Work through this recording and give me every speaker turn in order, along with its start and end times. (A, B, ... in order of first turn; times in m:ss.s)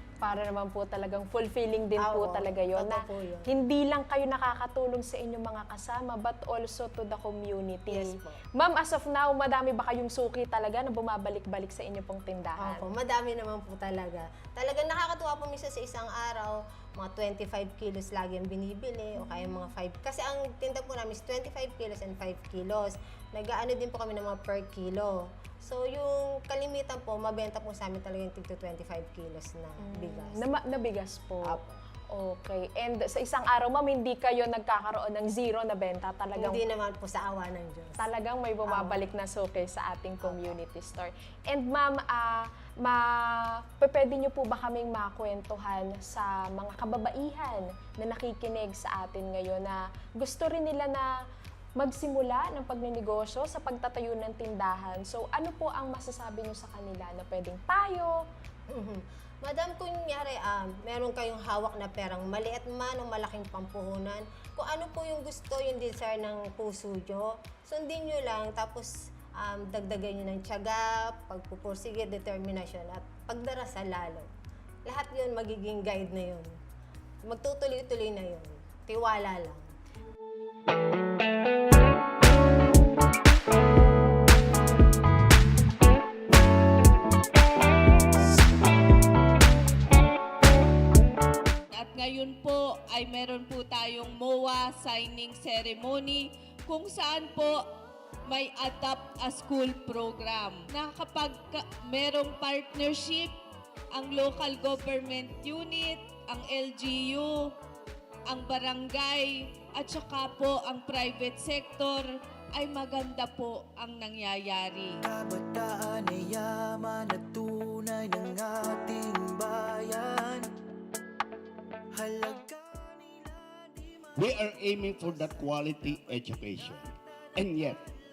0:00.2-0:12.8 A
0:02.0-0:03.5 B
0:07.9-0:08.4 B
0:12.6-0:30.4 B
0:29.8-0:36.6 A
0:31.4-0:31.8 B
0:36.4-0:38.1 B
0:38.0-0:51.1 A
0:38.6-0:39.0 B
0:40.2-0:40.6 B
0:51.8-0:58.2 A
0:58.7-1:14.3 B
1:14.9-1:16.5 B
1:17.2-1:19.7 B
1:31.7-1:37.6 C
1:38.3-1:43.4 C
1:43.9-1:47.5 C
1:48.3-1:55.0 C
1:55.0-2:00.5 D
2:01.9-2:03.8 D
2:04.2-2:07.8 E